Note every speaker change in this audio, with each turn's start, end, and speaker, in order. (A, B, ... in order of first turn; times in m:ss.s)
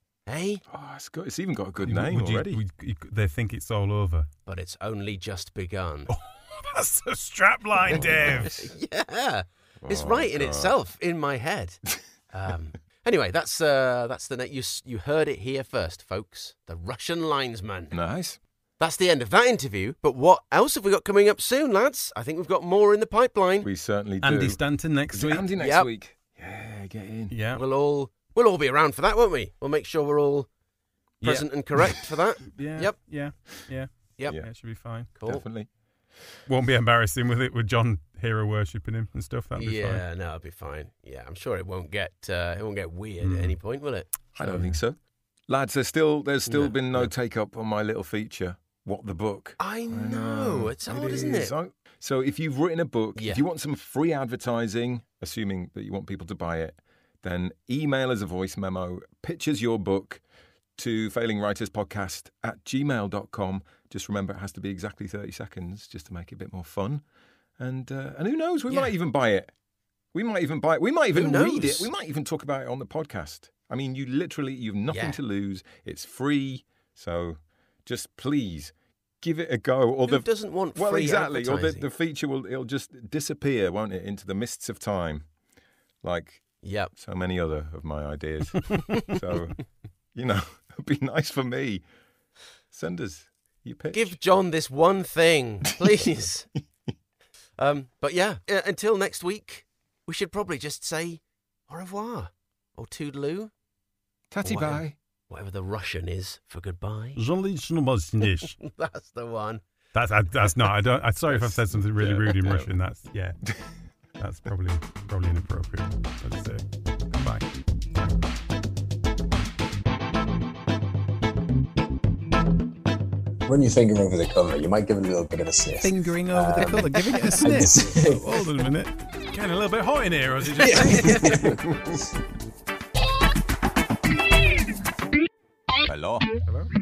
0:00.3-0:00.6 A
0:00.7-0:02.6 B
0:01.8-0:04.3 C
0:04.5-0:06.1 A
0:06.1-0:08.7 C
0:07.9-0:08.5 B
0:07.9-0:18.0 A
0:09.8-0:10.8 B
0:17.9-0:18.4 B
0:18.8-0:23.7 A
0:23.6-0:27.3 B
0:24.2-0:25.5 C
0:25.6-0:25.9 A
0:27.3-0:27.6 C
0:27.6-0:30.5 A
0:31.2-0:31.9 C
0:31.2-0:33.3 A
0:32.5-0:35.1 C
0:34.2-0:34.5 A
0:35.1-0:35.4 A
0:35.2-0:35.7 B
0:36.5-0:40.0 C
0:39.6-0:44.6 A
0:43.2-0:43.6 C
0:44.3-1:00.2 B
0:44.4-0:44.8 C
0:46.5-0:47.1 A
0:49.6-0:51.5 A
0:53.2-0:53.4 A
1:00.8-1:07.0 B
1:07.6-1:09.5 B
1:10.1-1:25.3 B
1:11.1-1:11.9 A
1:14.9-1:15.2 A
1:20.1-1:21.9 A
1:26.0-1:31.9 B
1:26.6-1:26.9 A
1:32.7-1:34.2 B
1:33.9-1:36.5 A
1:37.6-1:43.5 A
1:44.3-1:45.0 B
1:44.4-1:47.2 A
1:47.2-1:48.5 C
1:48.5-1:49.6 A
1:49.9-1:53.4 C
1:51.3-1:52.7 B
1:54.2-1:58.2 C
2:03.5-2:08.3 D
2:05.8-2:11.6 C
2:10.6-2:11.6 D
2:15.8-2:16.3 B
2:16.4-2:16.7 C